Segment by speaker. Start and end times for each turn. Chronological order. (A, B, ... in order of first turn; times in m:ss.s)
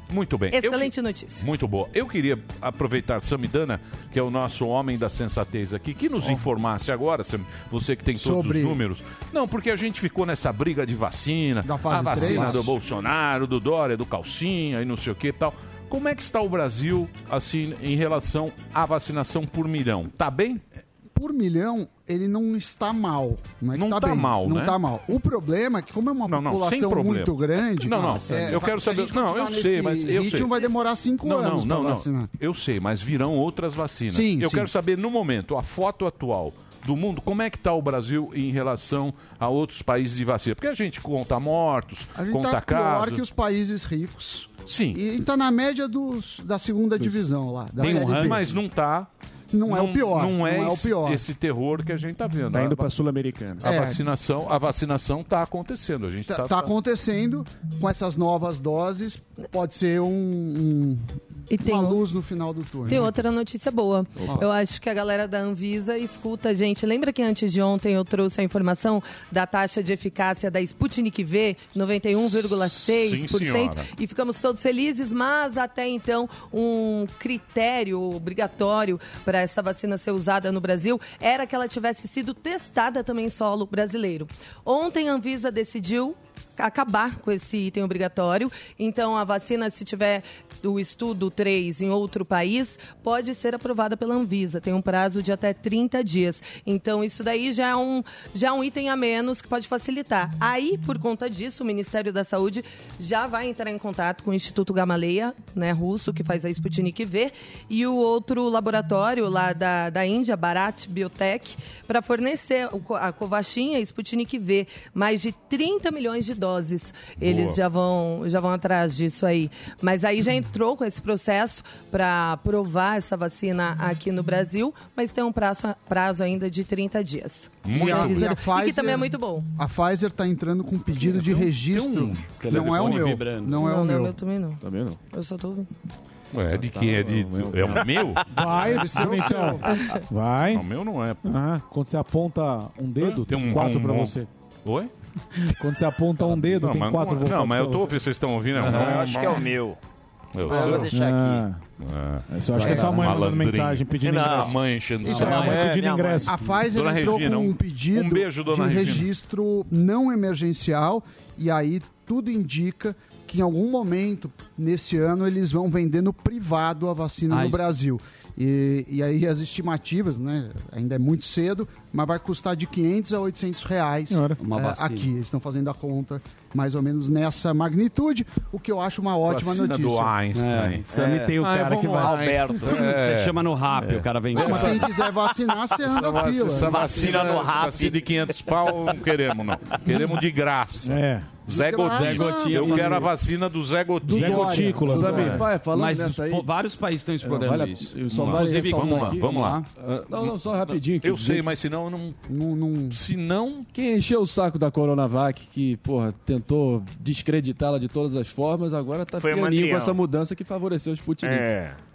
0:00.1-0:20.6 A
0:00.5-0:01.4 B
0:08.2-0:08.8 C
0:11.6-0:12.8 C
0:21.1-0:32.3 C
0:23.7-0:24.8 A
0:26.3-0:30.5 A
0:28.0-0:28.6 D
0:31.2-0:43.2 A
0:34.1-0:34.7 C
0:42.1-0:48.4 C
0:44.6-0:45.0 A
0:47.8-0:48.6 D
0:47.8-0:49.1 A
0:49.5-0:51.2 C
0:49.7-0:52.9 A
0:52.6-0:52.9 E
0:53.6-0:54.0 C
0:53.6-0:56.7 A
0:56.3-1:01.1 C
1:01.5-1:02.0 B
1:01.6-1:03.2 C
1:02.9-2:09.5 B
1:12.2-1:13.9 A
1:57.2-1:57.6 A
2:07.6-2:08.3 A
2:07.7-2:14.2 C
2:11.1-2:12.6 A
2:12.4-2:13.6 D
2:13.5-2:15.7 B
2:14.6-2:15.0 F
2:16.3-2:18.2 A
2:16.5-2:18.2 F
2:18.3-2:20.6 E
2:18.5-2:19.7 C
2:19.7-2:20.0 B
2:20.5-2:21.2 A
2:21.2-2:24.3 E
2:23.0-2:24.1 A
2:24.6-2:24.9 A
2:25.5-2:27.9 E
2:26.2-2:29.5 A
2:28.6-2:29.0 D
2:28.6-2:29.8 G
2:30.3-2:30.9 A
2:30.4-2:31.4 G
2:30.5-2:30.9 C
2:30.9-2:31.6 E
2:31.8-2:35.6 A
2:32.3-2:36.4 E
2:32.6-2:33.0 G
2:34.0-2:34.5 G
2:35.0-2:35.5 C
2:35.0-2:35.5 D
2:35.1-2:36.4 G
2:36.2-3:00.2 C
2:36.6-2:39.1 A
2:47.3-2:47.6 D
2:54.1-2:54.4 E
2:54.4-2:55.0 D
2:59.2-3:04.9 A
3:00.3-3:04.9 D
3:00.9-3:02.8 G
3:04.3-3:07.2 C
3:05.8-3:15.1 A
3:06.1-3:08.1 G
3:10.8-3:11.3 E
3:11.5-3:13.0 C
3:11.8-3:13.1 D
3:14.0-3:15.4 E
3:14.1-3:15.4 C
3:14.8-3:16.5 F
3:15.7-3:19.6 D
3:17.2-3:21.4 F
3:18.1-3:22.2 A
3:22.3-3:23.0 C
3:22.9-3:23.7 A
3:23.7-3:31.5 F
3:29.2-3:30.0 G
3:31.2-3:31.7 G